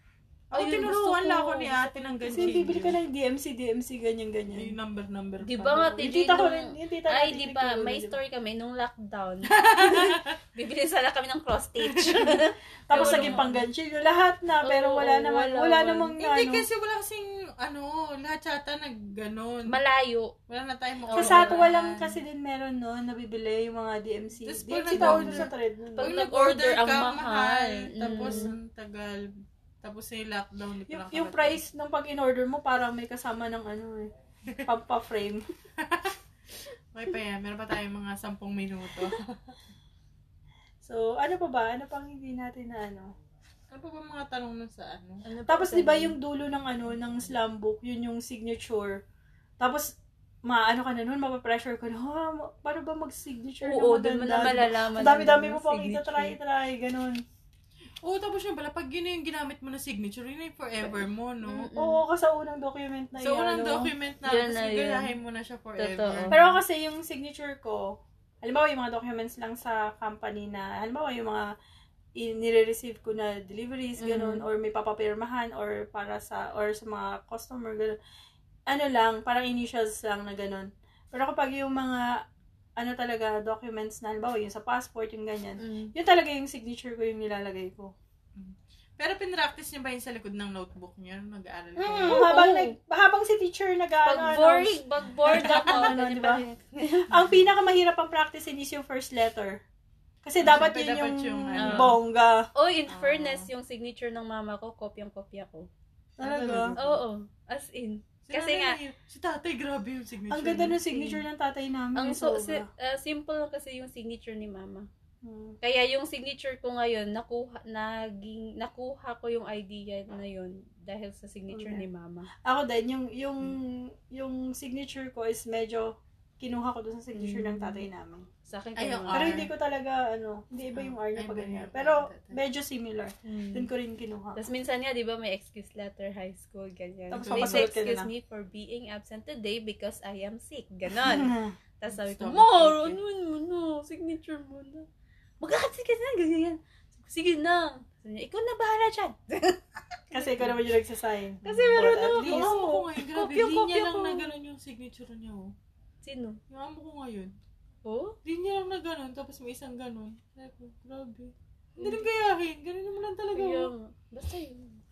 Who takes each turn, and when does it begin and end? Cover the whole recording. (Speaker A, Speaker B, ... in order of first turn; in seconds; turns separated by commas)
Speaker A: 0.5-3.0, Speaker B: 0.5-2.7, Speaker C: 2.3-4.8, Speaker A: 4.5-6.1, Speaker B: 5.4-13.7, Speaker C: 6.0-8.2, Speaker A: 9.5-10.3, Speaker A: 11.8-12.4, Speaker C: 12.9-16.7, Speaker A: 12.9-13.5, Speaker B: 14.6-16.1, Speaker A: 16.2-19.8, Speaker B: 19.7-20.3, Speaker A: 20.5-22.2, Speaker B: 21.1-21.7, Speaker C: 21.2-26.1, Speaker A: 24.4-29.3, Speaker B: 24.9-28.5, Speaker C: 28.1-28.5, Speaker A: 29.8-31.6, Speaker C: 30.9-34.1, Speaker C: 34.6-35.5, Speaker A: 35.8-36.2, Speaker A: 36.9-39.6, Speaker C: 40.8-43.1, Speaker A: 43.7-45.2, Speaker B: 45.2-46.1, Speaker C: 45.5-49.0, Speaker C: 49.6-49.9, Speaker C: 50.5-57.2, Speaker B: 53.6-56.4, Speaker A: 58.0-61.7, Speaker B: 61.4-62.0, Speaker C: 61.8-63.9, Speaker A: 63.2-66.5, Speaker B: 64.2-65.1, Speaker B: 65.8-66.4, Speaker C: 66.3-71.5, Speaker C: 72.2-78.0, Speaker B: 74.0-74.5, Speaker C: 78.7-82.1, Speaker C: 82.8-87.9, Speaker B: 85.6-85.9, Speaker A: 88.3-92.3, Speaker C: 91.8-96.4, Speaker B: 92.1-92.7, Speaker B: 94.0-97.2, Speaker A: 95.3-96.0, Speaker C: 97.1-99.6, Speaker C: 100.2-102.5, Speaker A: 100.4-102.0, Speaker B: 101.6-102.0, Speaker B: 102.5-105.7, Speaker A: 102.9-103.5, Speaker C: 106.2-106.8, Speaker A: 106.2-107.0, Speaker B: 106.8-108.8, Speaker A: 108.2-110.8, Speaker C: 110.3-112.7, Speaker B: 110.9-111.2, Speaker B: 112.0-114.9, Speaker C: 115.2-115.6, Speaker B: 115.6-122.3, Speaker C: 121.5-121.8, Speaker C: 122.4-128.3, Speaker B: 127.2-127.9, Speaker B: 128.5-129.5, Speaker A: 128.8-129.5, Speaker C: 129.1-134.4, Speaker A: 130.8-132.4, Speaker B: 133.3-133.7, Speaker B: 134.4-144.9, Speaker C: 137.1-138.1, Speaker A: 137.2-137.8, Speaker C: 141.0-141.6, Speaker A: 141.9-143.0, Speaker B: 145.4-150.4, Speaker C: 150.1-152.6, Speaker B: 151.4-154.3, Speaker A: 151.8-155.5, Speaker B: 156.0-156.4, Speaker A: 156.5-157.3, Speaker B: 157.8-158.2, Speaker A: 158.2-163.7, Speaker B: 161.8-162.1, Speaker B: 163.3-164.8